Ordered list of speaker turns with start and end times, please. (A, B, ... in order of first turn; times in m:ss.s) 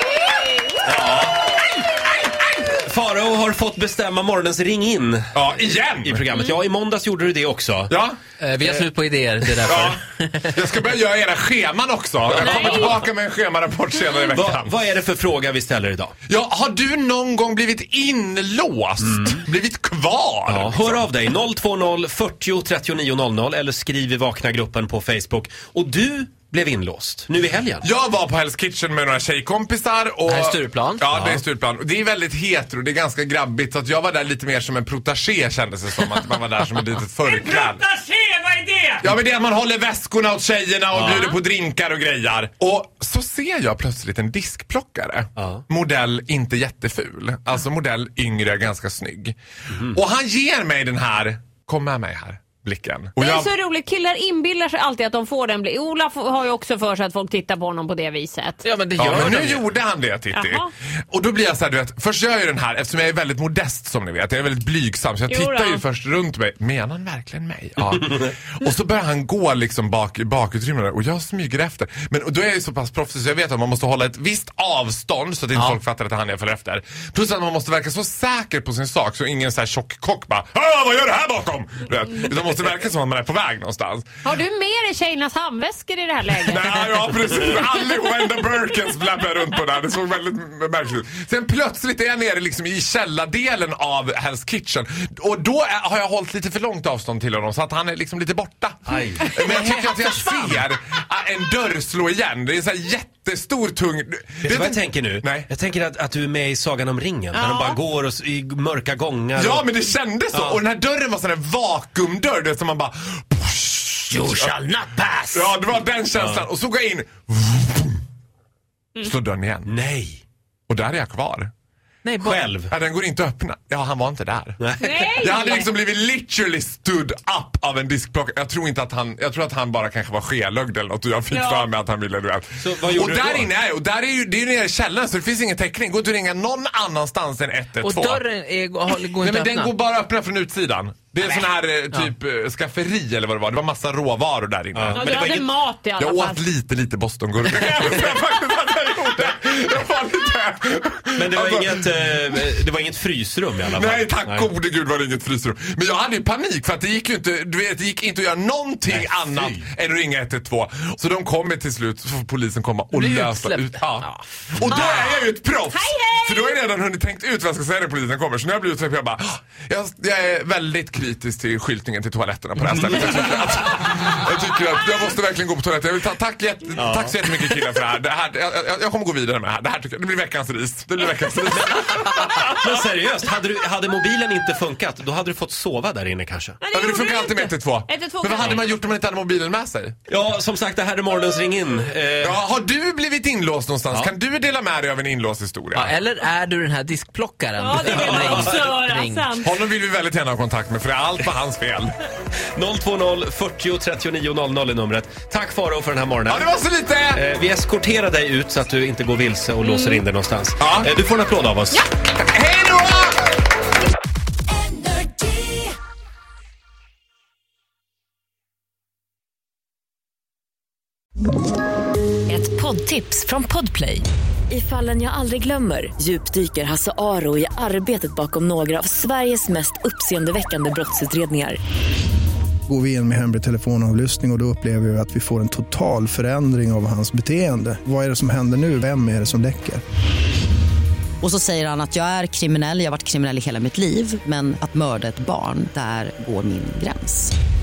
0:00.8-0:01.5 A
0:02.6-0:05.3 A
0:05.4-0:06.2 B
0:06.0-0:07.9 A
0:08.4-0:10.6 C
0:10.6-0:14.7 B
0:12.3-0:12.9 A
0:12.4-0:13.0 D
0:14.3-0:16.1 A
0:16.3-0:21.0 B
0:20.5-0:27.9 A
0:27.8-0:37.8 B
0:30.3-0:31.4 C
0:37.3-0:39.0 C
0:39.0-0:49.4 B
0:40.9-0:41.3 A
0:41.1-0:41.4 D
0:49.9-0:53.5 B
0:53.2-0:58.6 D
0:58.6-0:59.7 C
0:59.0-1:08.1 B
1:00.3-1:00.7 D
1:05.3-1:05.8 D
1:08.6-1:24.1 B
1:24.2-1:27.3 D
1:26.5-1:45.5 B
1:38.9-1:39.4 A
1:44.4-1:49.7 A
1:47.4-1:47.8 D
1:49.4-1:54.5 B
1:50.3-1:50.6 A
1:54.1-1:55.5 C
1:55.3-1:58.0 B
1:56.2-1:56.4 A
1:59.0-1:59.7 B
1:59.7-2:00.2 A
2:00.7-2:01.5 B
2:02.0-2:02.5 C
2:02.2-2:02.7 A
2:02.7-2:04.6 B
2:04.6-2:05.2 A
2:04.8-2:05.7 D
2:05.2-2:18.2 B
2:11.3-2:11.7 D
2:12.6-2:13.5 A
2:17.8-2:19.7 C
2:19.2-2:25.0 B
2:24.8-2:25.5 A
2:24.9-2:26.4 D
2:26.0-2:31.5 B
2:31.2-2:34.5 A
2:33.8-2:44.1 B
2:38.9-2:39.7 A
2:42.9-2:44.3 C
2:44.6-3:02.2 B
2:44.7-2:46.6 D
2:56.8-2:57.6 A
3:01.6-3:06.6 A
3:06.6-3:08.6 D
3:06.7-3:10.0 B
3:10.1-3:12.4 A
3:12.2-3:15.9 B
3:15.8-3:19.4 C
3:17.6-3:19.5 D
3:17.8-3:18.6 A
3:19.4-3:21.9 B
3:22.6-3:26.6 A
3:26.3-3:27.2 B
3:27.1-3:31.8 A
3:29.6-3:30.0 D
3:30.6-3:30.9 B
3:32.2-3:33.2 B
3:34.9-3:35.6 E
3:42.3-3:51.6 E
3:52.7-3:59.8 F
4:01.2-4:07.3 G